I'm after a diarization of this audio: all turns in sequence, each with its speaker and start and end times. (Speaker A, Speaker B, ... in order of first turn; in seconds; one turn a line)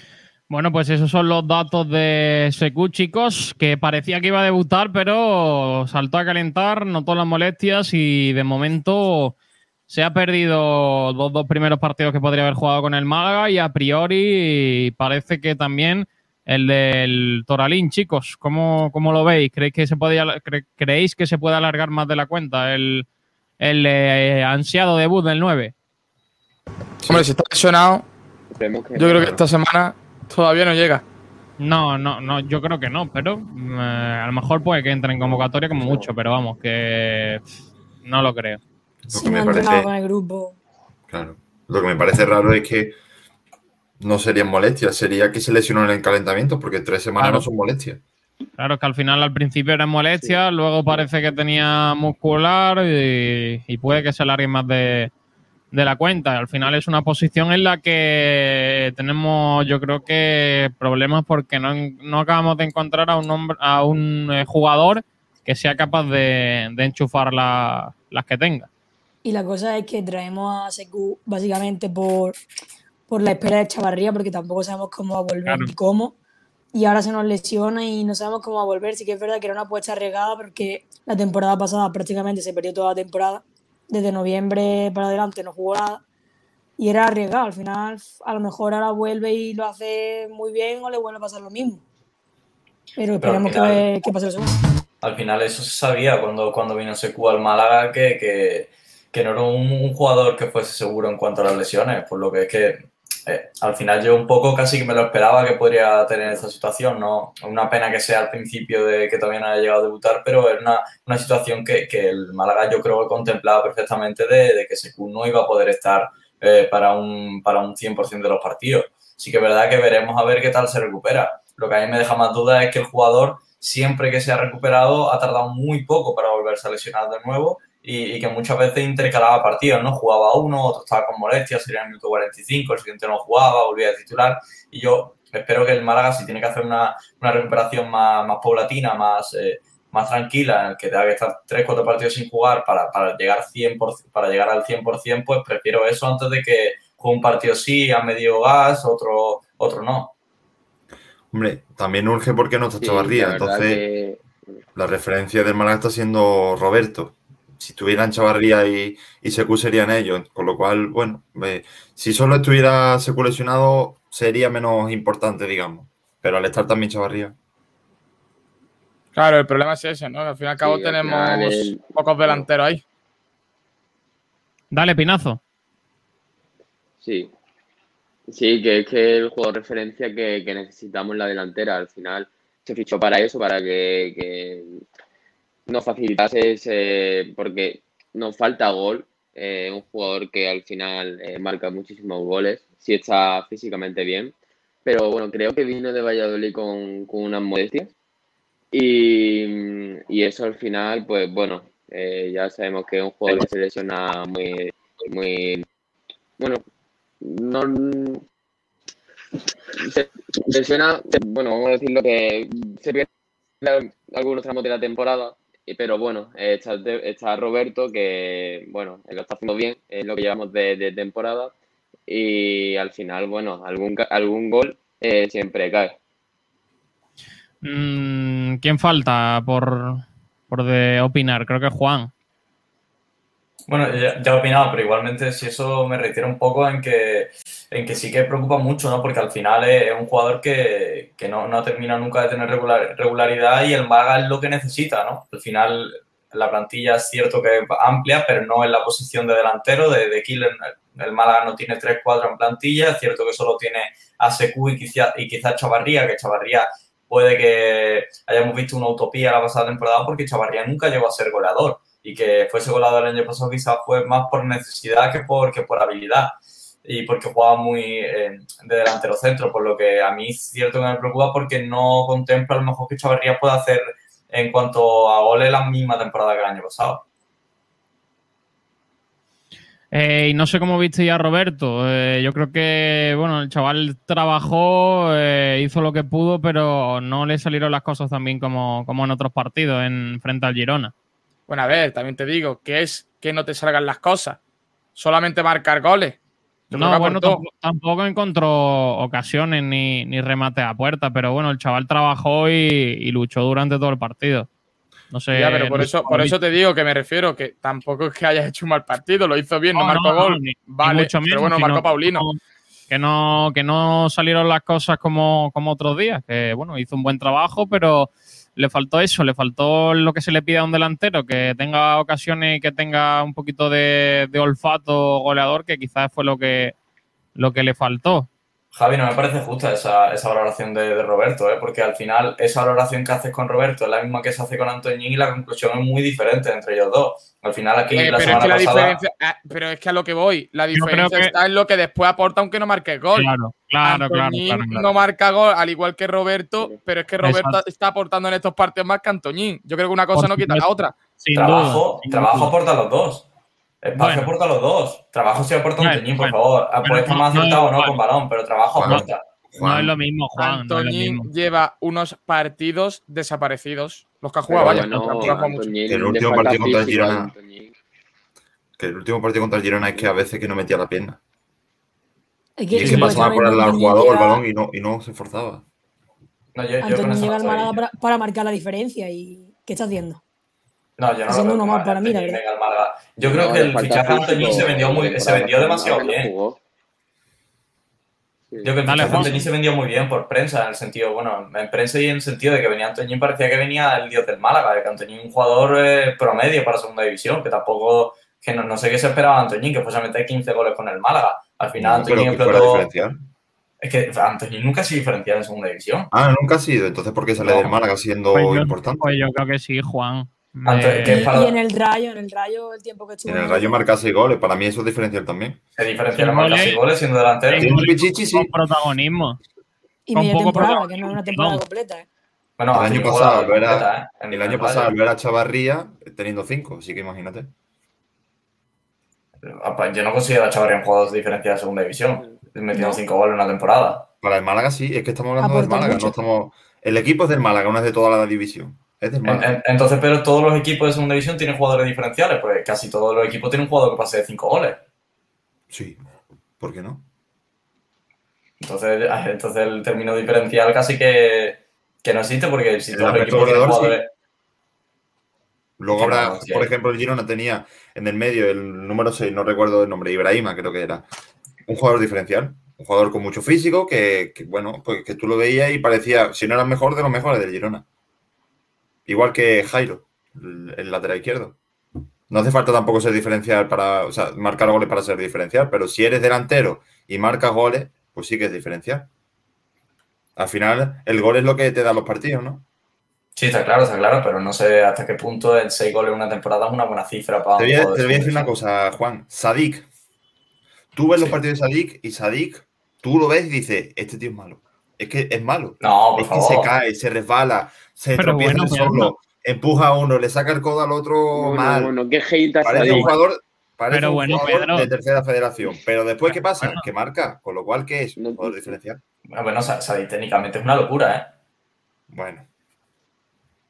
Speaker A: 0.5-9.3
Speaker A: 9.9-23.1
Speaker A: 23.6-25.7
Speaker B: 27.1-28.1
Speaker C: 28.5-29.3
Speaker B: 28.9-31.0
Speaker A: 31.6-37.4
Speaker A: 38.0-38.6
Speaker D: 39.1-39.9
Speaker E: 39.1-40.5
Speaker D: 41.1-42.9
Speaker D: 44.0-48.0
Speaker A: 47.2-47.4
Speaker A: 48.6-55.1
Speaker A: 55.7-68.7
Speaker E: 69.2-72.3
Speaker E: 73.1-76.1
Speaker E: 76.7-86.0
Speaker E: 86.8-91.8
Speaker E: 93.0-94.5
Speaker F: 93.2-93.8
Speaker F: 95.0-150.1
Speaker D: 151.3-153.8
Speaker C: 152.8-154.2
Speaker D: 154.7-167.3
Speaker B: 169.1-172.8
Speaker C: 170.6-172.4
Speaker A: 174.7-175.4
Speaker C: 177.0-177.3
Speaker C: 178.3-184.8
Speaker C: 185.7-194.3
Speaker C: 194.8-197.9
Speaker C: 198.7-205.7
Speaker C: 206.4-206.6
Speaker C: 207.2-208.2
Speaker C: 209.8-213.1
Speaker C: 213.6-221.5
Speaker C: 222.1-225.9
Speaker A: 227.6-232.1
Speaker F: 233.7-277.0
Speaker A: 279.9-290.9
Speaker B: 291.5-294.4
Speaker B: 294.9-296.2
Speaker B: 296.7-297.4
Speaker A: 296.7-304.5
Speaker A: 305.1-306.4
Speaker B: 305.3-312.3
Speaker A: 309.7-312.4
Speaker A: 312.9-326.7
Speaker A: 327.4-328.3
Speaker F: 328.7-339.0
Speaker B: 337.9-343.3
Speaker A: 340.7-341.3
Speaker A: 343.1-344.9
Speaker B: 343.8-350.9
Speaker A: 347.2-347.6
Speaker A: 350.1-352.5
Speaker F: 351.3-353.2
Speaker F: 353.8-359.2
Speaker A: 353.9-354.3
Speaker A: 355.8-358.0
Speaker D: 358.7-359.9
Speaker A: 359.6-361.3
Speaker B: 360.4-365.7
Speaker C: 364.5-367.8
Speaker D: 365.9-367.3
Speaker D: 368.8-371.2
Speaker C: 369.9-370.1
Speaker E: 372.6-374.4
Speaker D: 372.7-375.6
Speaker A: 372.8-373.3
Speaker F: 376.5-377.8
Speaker E: 376.8-380.2
Speaker F: 381.0-386.3
Speaker E: 381.3-382.4
Speaker C: 383.2-386.6
Speaker C: 388.5-388.8
Speaker F: 388.6-402.9
Speaker A: 388.9-389.4
Speaker D: 389.0-389.4
Speaker D: 401.8-403.2
Speaker F: 403.8-406.1
Speaker D: 406.1-409.1
Speaker A: 407.4-407.7
Speaker A: 408.3-411.2
Speaker F: 410.6-411.6
Speaker E: 411.0-413.8
Speaker D: 413.2-415.6
Speaker F: 415.8-417.9
Speaker A: 416.1-416.8
Speaker A: 417.5-419.4
Speaker D: 417.5-418.5
Speaker E: 420.1-422.1
Speaker A: 420.1-421.6
Speaker F: 422.6-424.9
Speaker D: 422.7-427.5
Speaker F: 429.4-434.0
Speaker E: 432.7-433.0
Speaker D: 434.2-439.5
Speaker E: 435.4-436.1
Speaker F: 439.2-444.8
Speaker D: 445.7-446.0
Speaker D: 446.6-447.0
Speaker F: 448.6-454.1
Speaker D: 452.9-454.0
Speaker D: 455.8-461.1
Speaker F: 455.9-456.7
Speaker D: 461.7-467.8
Speaker D: 469.1-471.6
Speaker D: 472.3-479.1
Speaker D: 480.4-482.6
Speaker F: 483.4-488.5
Speaker D: 487.6-489.9
Speaker D: 490.9-501.9
Speaker F: 495.8-496.7
Speaker A: 498.2-499.1
Speaker C: 501.3-503.2
Speaker D: 502.6-509.0
Speaker A: 502.8-503.1
Speaker A: 503.9-504.9
Speaker A: 506.3-506.9
Speaker C: 508.1-508.8
Speaker F: 509.3-511.3
Speaker D: 512.1-512.5